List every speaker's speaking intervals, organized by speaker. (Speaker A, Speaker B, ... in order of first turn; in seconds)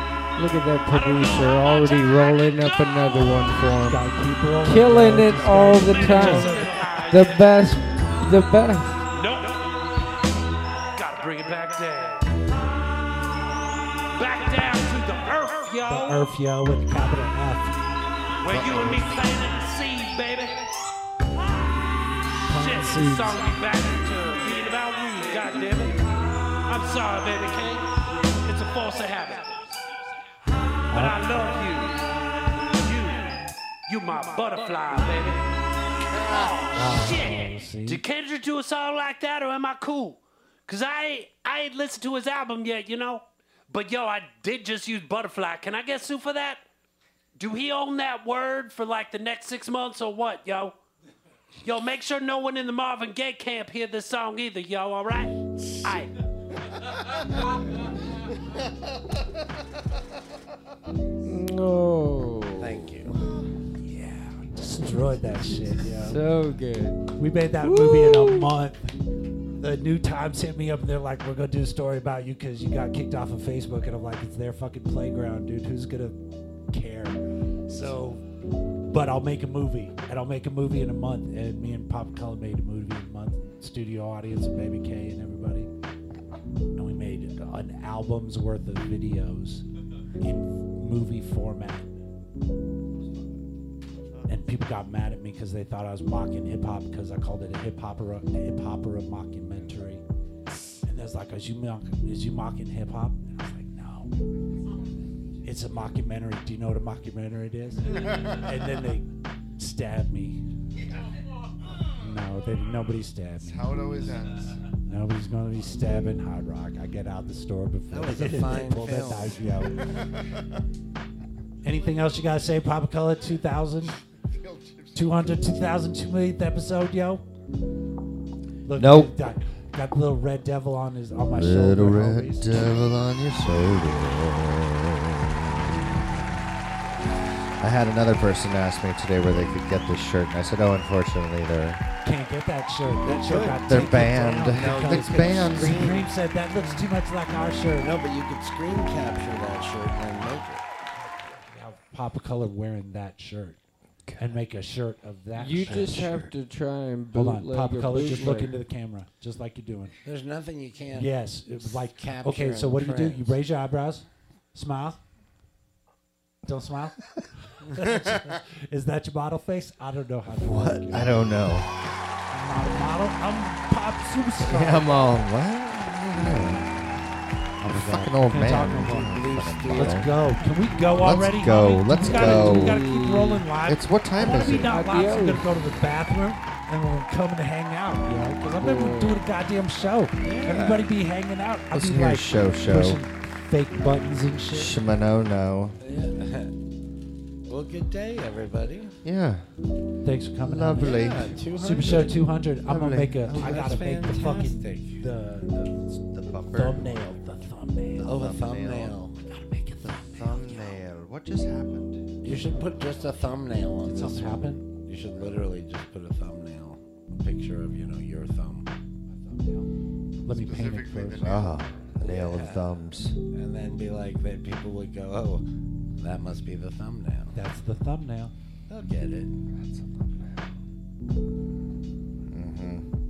Speaker A: 0.3-4.0, 4.6-9.0, 22.9-23.4, 61.2-62.8, 65.8-68.5, 155.3-158.6, 182.0-183.5, 184.6-185.8, 188.5-189.3
Speaker B: 0.9-2.8, 5.9-7.5, 9.1-9.8, 10.9-12.4, 14.1-16.2, 18.4-20.7, 22.6-26.0, 26.6-29.8, 30.7-32.0, 32.8-35.5, 36.1-46.6, 47.4-50.8, 51.6-56.1
Speaker C: 3.9-6.8, 15.8-17.9, 22.5-23.4, 30.9-31.2, 36.7-38.0, 63.8-66.2, 67.2-68.9, 69.6-76.2, 76.7-78.2, 78.9-85.7, 86.7-89.6, 90.2-92.0, 94.3-100.0, 100.8-104.1, 105.4-110.4, 112.0-113.9, 114.9-119.8, 121.6-124.0, 124.9-127.2, 128.7-132.6, 142.0-147.9, 151.5-153.6, 154.2-156.0, 157.1-159.9, 160.9-165.0, 166.5-166.9, 167.6-171.2, 172.3-175.1, 177.6-194.7, 200.0-205.8, 206.5-208.1, 209.2-210.8, 213.8-214.6, 219.1-219.7, 220.2-221.2, 227.3-228.3
Speaker D: 18.5-19.3, 113.4-114.5, 124.3-125.0, 220.3-221.5
Speaker E: 62.6-63.1, 117.9-119.4, 143.0-143.6, 144.5-146.0, 147.8-150.6, 160.0-163.3, 179.1-180.1, 190.2-190.8, 195.8-196.5, 197.5-198.9, 200.8-202.1, 203.3-205.0, 208.0-209.2, 212.2-218.7, 222.0-222.7, 223.3-225.4, 226.0-227.3, 228.7-229.3
Speaker F: 128.8-129.1, 131.3-136.4, 137.6-141.8, 143.6-146.0, 155.6-156.3, 170.4-171.7, 174.4-176.8, 177.6-180.1, 181.0-182.8, 183.6-184.7, 191.7-193.0, 194.5-195.8, 199.0-199.5, 200.4-202.0, 202.6-203.8, 205.8-207.1, 207.9-208.9, 209.8-212.0, 221.2-223.2, 229.5-230.4, 232.3-232.8